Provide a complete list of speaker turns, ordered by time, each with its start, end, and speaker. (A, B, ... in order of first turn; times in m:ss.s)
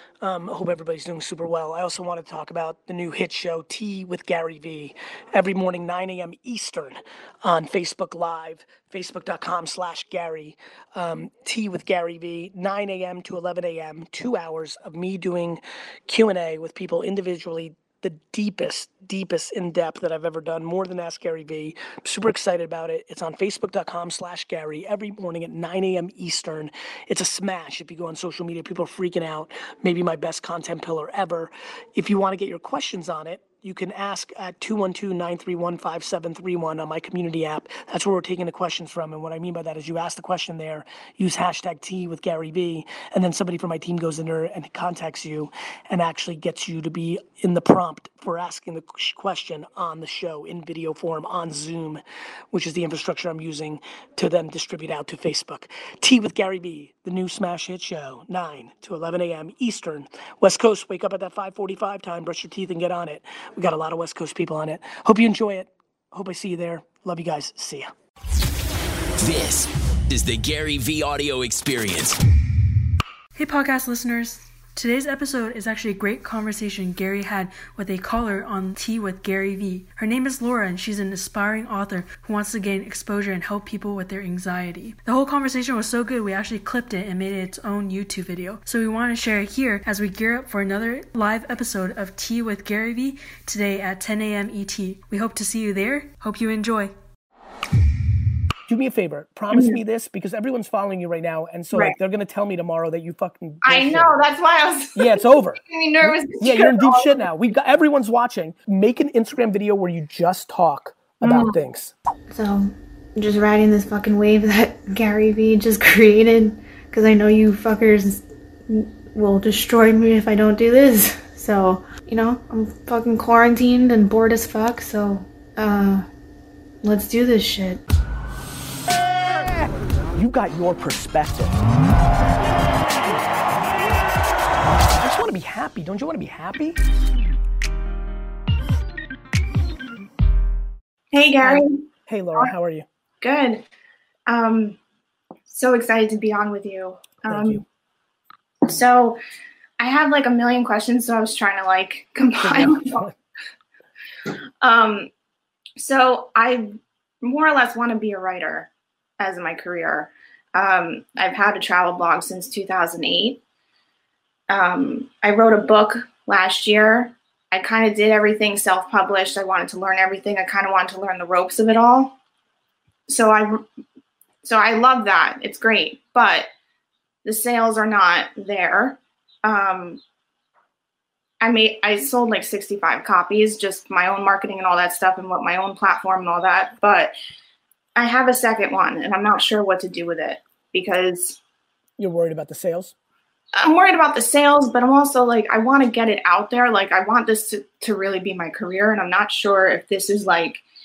0:00.2-1:07.9 A
1:09.2-1:12.2 B
1:13.3-1:36.9 C
1:38.7-1:44.2 A
1:39.5-1:39.8 D
1:41.7-1:42.0 D
1:43.6-1:47.4 D
1:45.0-1:51.9 A
1:51.2-1:51.6 D
1:52.3-2:06.0 E
2:06.8-2:07.8 E
2:09.4-2:11.6 A
2:15.0-2:16.8 A
2:21.1-2:21.7 D
2:21.4-2:22.8 A
2:23.2-2:23.6 D
2:24.3-2:24.8 D
2:25.5-2:27.6 D
2:27.2-2:27.6 A
2:28.7-2:29.2 D
2:29.8-2:33.0 D
2:32.4-2:33.2 A
2:34.6-2:35.1 D
2:35.8-2:36.7 D
2:37.2-2:43.4 D
2:44.5-2:52.2 D
2:53.1-2:53.6 D
2:54.4-2:56.5 D
2:57.2-3:00.0 D
3:01.4-3:07.1 D
3:08.0-3:11.4 D
3:12.0-3:12.9 A
3:13.6-3:20.6 D